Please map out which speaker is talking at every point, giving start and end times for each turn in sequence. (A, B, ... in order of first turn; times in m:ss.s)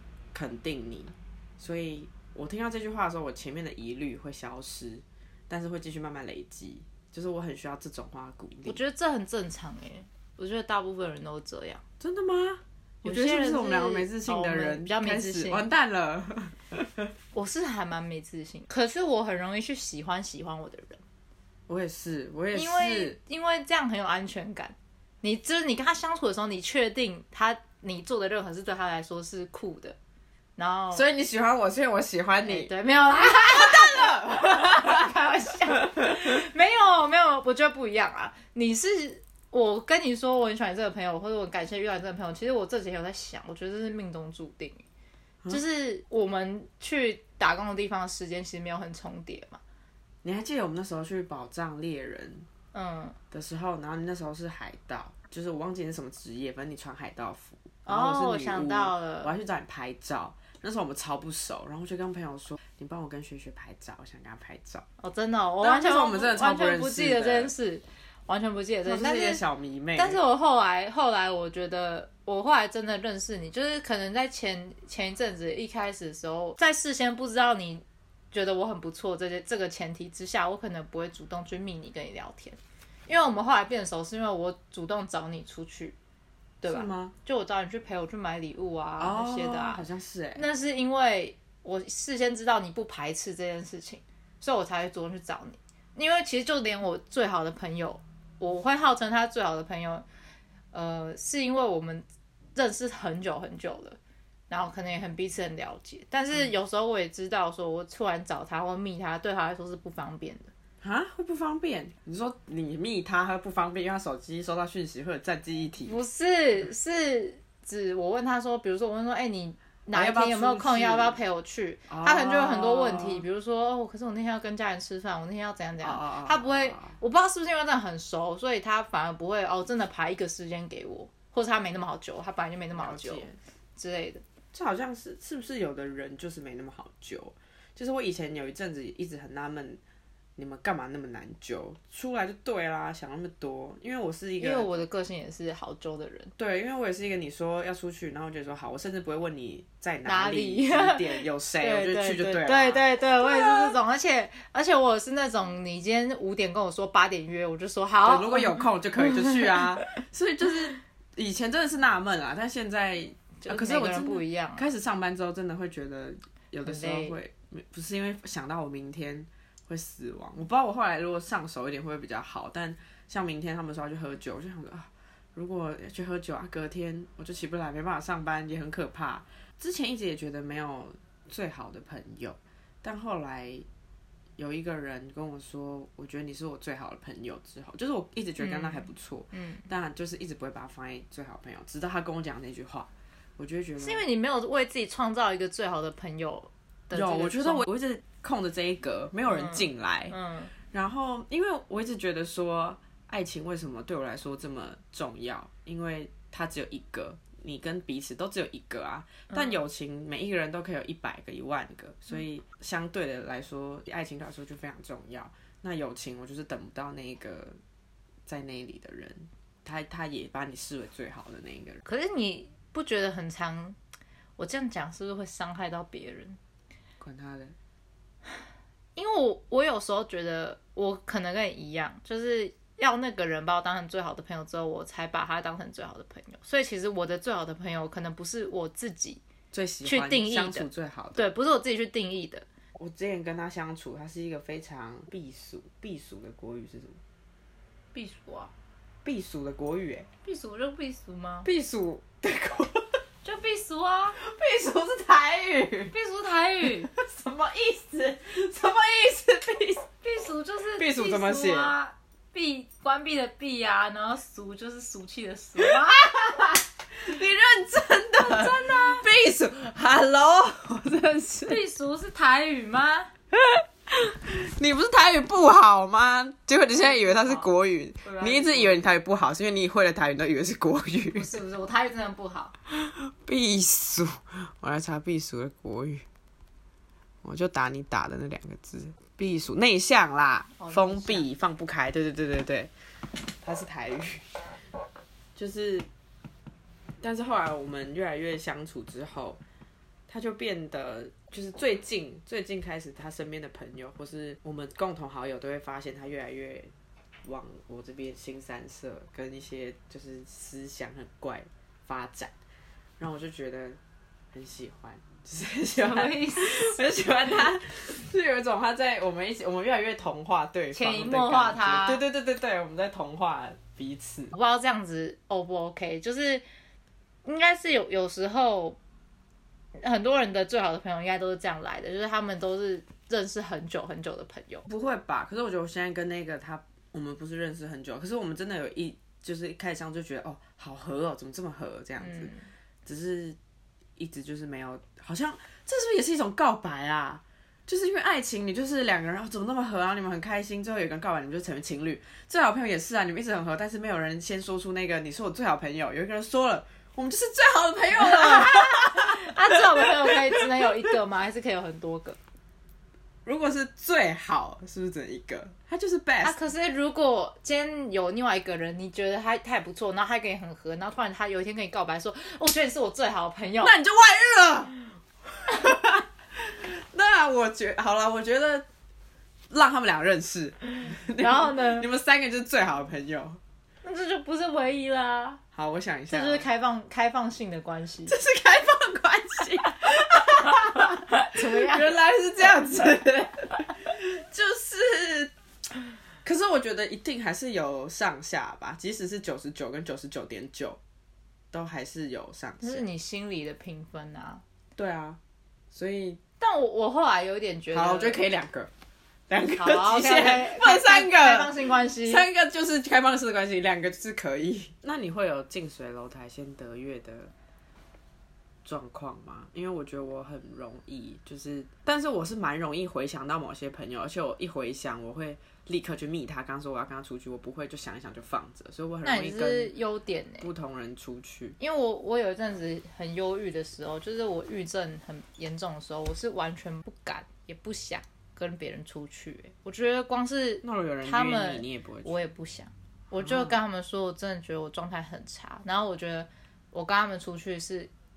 0:00.3-0:08.8 A
0:08.6-0:11.8 B
0:12.0-0:17.1 A
0:13.0-0:15.6 B
0:17.3-0:21.0 B
0:21.7-0:23.2 A
0:22.5-0:30.0 B
0:30.6-0:31.0 B
0:30.9-0:35.1 A
0:32.4-0:44.8 B
0:35.7-0:36.1 A
0:45.5-0:49.6 B
0:50.2-0:52.5 A
0:52.7-0:53.2 B
0:53.3-1:04.8 A
0:57.8-0:59.3 B
1:05.0-1:09.4 B
1:05.6-1:07.5 A
1:08.8-1:10.2 A
1:10.0-1:26.0 B
1:26.6-1:29.8 B
1:26.6-1:27.1 A
1:29.0-1:30.4 A
1:30.4-1:40.0 B
1:40.7-1:44.0 B
1:44.5-1:50.5 B
1:50.8-1:56.0 A
1:55.8-2:14.2 B
1:59.9-2:01.2 A
2:01.9-2:03.2 A
2:05.8-2:07.0 A
2:12.7-2:13.4 A
2:14.5-2:19.8 A
2:20.4-2:24.7 A
2:24.4-2:26.3 B
2:26.4-2:33.8 A
2:30.0-2:39.8 B
2:38.0-3:03.6 A
2:43.4-2:44.6 B
2:46.6-2:47.2 B
3:04.4-3:14.0 A
3:08.4-3:09.7 B
3:13.8-3:17.6 B
3:16.9-3:20.2 A
3:19.3-3:20.5 B
3:20.7-3:37.6 A
3:29.3-3:29.6 B
3:38.3-3:41.8 A
3:41.8-3:43.8 B
3:44.4-3:46.4 B
3:47.0-3:47.5 A
3:49.0-3:59.2 B
3:59.5-4:01.3 A
3:59.8-4:02.4 B
4:02.8-4:07.0 A
4:07.9-4:08.5 B
4:09.0-4:10.1 A
4:10.2-4:11.5 B
4:11.4-4:13.0 A
4:13.2-4:14.2 B
4:14.1-4:15.9 A
4:15.9-4:16.9 B
4:16.8-4:19.9 A
4:20.0-4:26.0 B
4:20.8-4:21.7 A
4:25.6-4:31.6 A
4:28.2-4:29.0 B
4:31.5-4:33.1 B
4:33.4-4:41.3 A
4:36.8-4:37.5 B
4:38.0-4:38.9 B
4:41.1-4:42.5 B
4:42.7-4:46.0 A
4:47.2-4:52.7 A
4:50.6-4:51.3 B
4:53.3-4:54.4 A
4:55.4-4:55.8 A
4:57.0-4:59.4 A
5:00.1-5:06.7 A
5:07.2-5:12.3 A
5:13.0-5:13.8 A
5:14.3-5:24.3 A
5:15.7-5:16.9 B
5:20.7-5:22.0 B
5:24.3-5:26.4 B
5:27.2-5:28.8 B
5:29.8-5:34.6 B
5:34.7-5:42.3 A
5:42.0-5:42.5 B
5:42.8-5:43.4 A
5:44.0-6:00.4 A
5:57.9-6:02.2 B
6:03.2-6:06.4 A
6:06.2-6:13.7 B
6:13.6-6:14.8 A
6:15.4-6:18.6 A
6:19.5-6:23.4 A
6:21.2-6:21.9 B
6:23.8-6:25.4 B
6:25.5-6:26.4 A
6:26.1-6:28.2 B
6:28.1-6:35.3 A
6:30.4-6:32.0 B
6:36.2-6:40.8 A
6:41.5-6:42.8 A
6:42.6-6:44.4 B
6:44.8-6:45.2 A
6:45.7-6:46.2 A
6:46.4-6:48.2 B
6:47.7-6:48.7 A
6:49.3-6:51.5 A
6:49.5-6:52.3 B
6:52.0-6:57.3 A
6:58.6-7:09.8 A
7:09.0-7:10.5 B
7:10.4-7:11.6 A
7:11.6-7:27.9 B
7:20.6-7:22.2 A
7:23.2-7:23.6 A